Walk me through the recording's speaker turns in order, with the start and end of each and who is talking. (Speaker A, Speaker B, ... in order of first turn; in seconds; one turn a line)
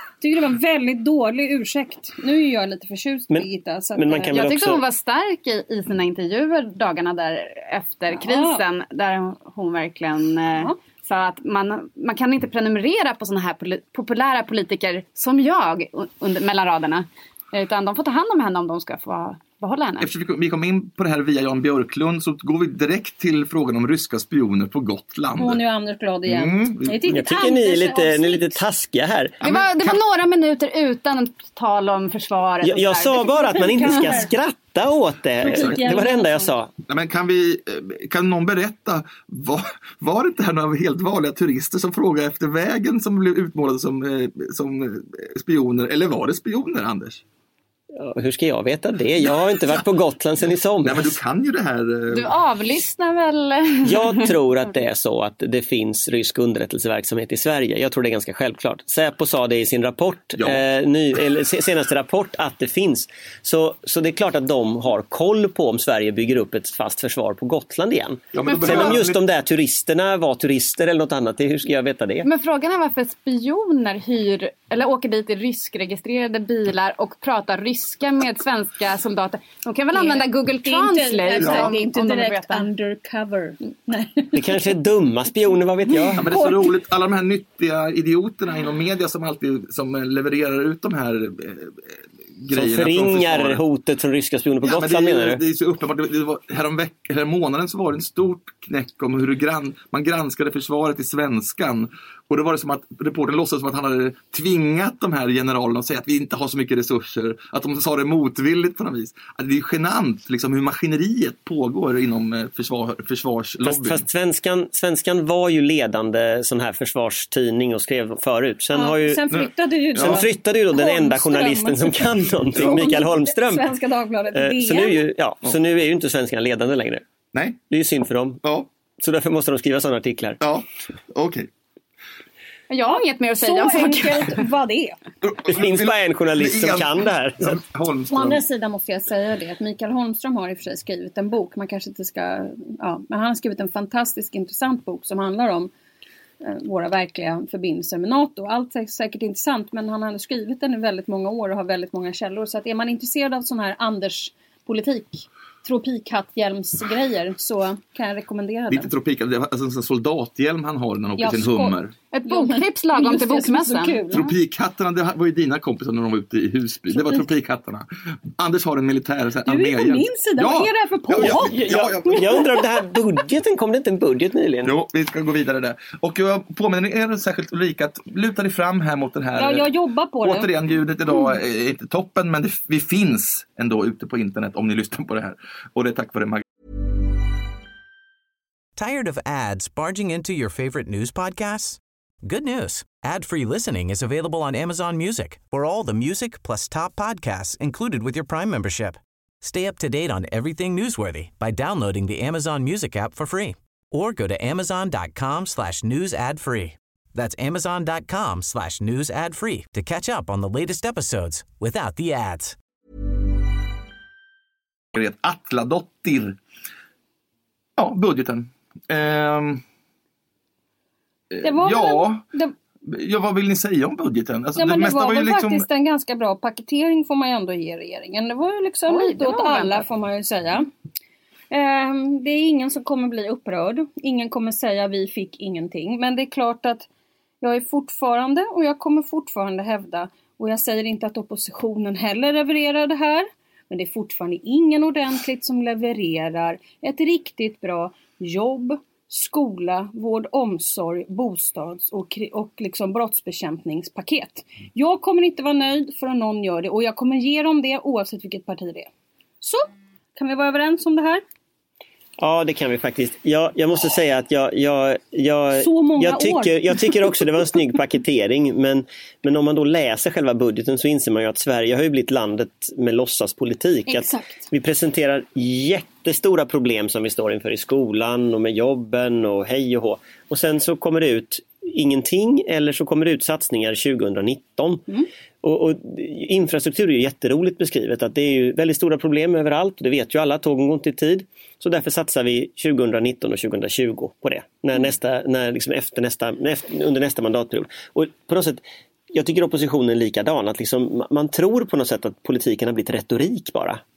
Speaker A: 0.2-4.6
Speaker B: 3.3-4.8
Speaker C: 4.3-20.1
Speaker A: 8.2-8.6
Speaker D: 20.0-25.6
Speaker A: 25.4-28.6
Speaker D: 26.3-27.1
Speaker B: 27.1-29.4
Speaker D: 29.4-30.0
Speaker C: 29.4-33.9
Speaker B: 32.6-36.7
Speaker A: 33.2-34.3
Speaker A: 35.4-36.5
Speaker D: 35.5-35.8
Speaker D: 36.9-47.2
Speaker B: 48.0-51.2
Speaker D: 50.8-52.3
Speaker C: 52.1-54.3
Speaker B: 53.8-72.3
Speaker D: 68.3-69.2
Speaker C: 68.6-69.0
Speaker C: 72.2-82.7
Speaker A: 79.9-84.7
Speaker D: 81.4-81.7
Speaker B: 84.3-86.3
Speaker A: 86.1-86.7
Speaker D: 86.2-91.8
Speaker D: 92.4-93.6
Speaker B: 92.5-95.4
Speaker D: 94.6-114.0
Speaker B: 113.6-119.3
Speaker A: 118.7-125.1
Speaker D: 119.3-120.2
Speaker B: 120.0-123.7
Speaker B: 124.3-127.0
Speaker D: 127.3-127.6
Speaker B: 127.7-128.4
Speaker B: 129.0-130.4
Speaker D: 130.4-131.5
Speaker C: 132.7-134.4
Speaker A: 132.9-135.0
Speaker D: 135.2-138.4
Speaker B: 135.4-137.6
Speaker A: 138.1-145.7
Speaker A: 146.4-158.9
Speaker D: 158.7-161.9
Speaker A: 161.2-164.3
Speaker C: 162.1-164.3
Speaker D: 164.1-172.5
Speaker A: 166.9-167.3
Speaker A: 169.5-172.8
Speaker B: 171.2-174.8
Speaker D: 174.6-179.7
Speaker A: 179.4-180.5
Speaker D: 180.2-186.4
Speaker E: 188.8-212.6
Speaker D: 214.9-216.4
Speaker D: 217.8-219.6
Speaker D: 221.3-222.2
Speaker A: 221.4-222.5
Speaker D: 222.9-225.7
Speaker A: 224.6-230.7
Speaker C: 228.9-229.9
Speaker A: 231.5-236.9
Speaker A: 237.4-258.9
Speaker A: 259.4-261.2
Speaker B: 262.2-303.8
Speaker A: 265.6-267.1
Speaker A: 273.9-274.5